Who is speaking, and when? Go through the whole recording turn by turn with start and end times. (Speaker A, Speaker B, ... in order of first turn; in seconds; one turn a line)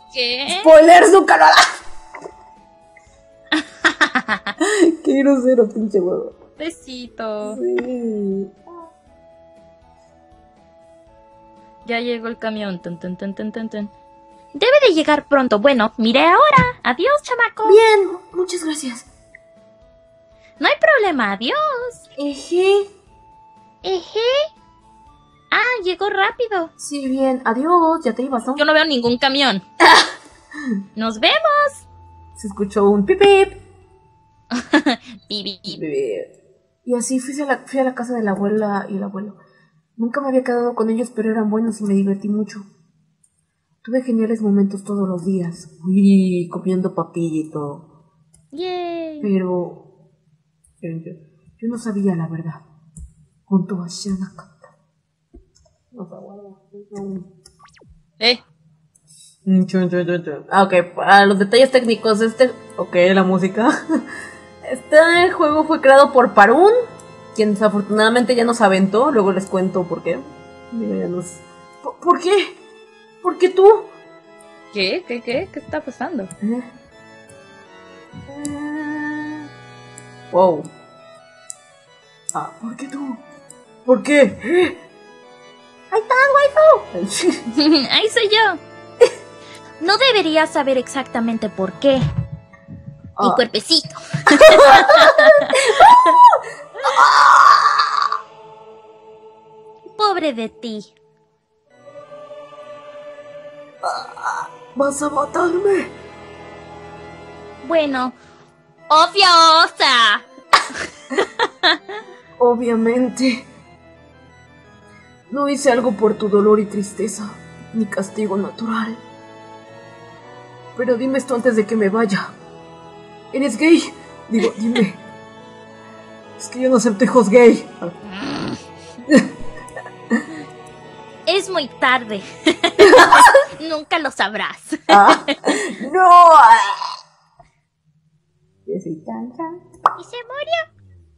Speaker A: 0.1-0.7
Speaker B: 0.5-1.6
Speaker A: 3.6-4.5
Speaker B: 4.6-6.3
Speaker A: 6.6-7.6
Speaker B: 7.4-8.6
Speaker A: 11.9-13.9
Speaker A: 14.5-17.8
Speaker B: 17.6-19.1
Speaker A: 20.6-22.0
Speaker B: 22.2-22.9
Speaker A: 23.8-24.5
Speaker A: 25.5-26.7
Speaker B: 26.8-28.6
Speaker A: 28.6-29.6
Speaker A: 31.0-31.8
Speaker B: 32.4-33.6
Speaker A: 34.5-35.8
Speaker B: 35.7-36.3
Speaker B: 36.9-39.4
Speaker B: 40.0-42.7
Speaker B: 43.8-47.9
Speaker A: 48.5-49.3
Speaker B: 49.2-49.9
Speaker B: 50.8-52.6
Speaker B: 53.5-54.6
Speaker B: 55.9-57.3
Speaker B: 59.5-63.8
Speaker B: 64.6-66.8
Speaker B: 67.3-72.6
Speaker B: 73.2-73.9
Speaker A: 74.7-76.3
Speaker B: 76.4-76.7
Speaker B: 78.3-79.5
Speaker B: 80.3-80.7
Speaker B: 82.3-83.2
Speaker B: 83.8-84.8
Speaker B: 85.9-87.4
Speaker A: 87.5-88.6
Speaker A: 89.8-92.0
Speaker B: 93.2-93.4
Speaker A: 93.2-96.1
Speaker B: 94.3-98.1
Speaker A: 100.0-100.9
Speaker B: 103.8-105.9
Speaker A: 107.6-108.2
Speaker A: 108.9-110.2
Speaker A: 111.2-111.8
Speaker B: 112.4-113.5
Speaker B: 115.3-119.0
Speaker B: 120.8-122.3
Speaker B: 123.3-125.0
Speaker B: 126.4-128.0
Speaker A: 128.1-128.6
Speaker A: 131.3-135.3
Speaker B: 132.8-133.4
Speaker B: 134.9-136.9
Speaker B: 138.7-139.6
Speaker A: 140.0-140.7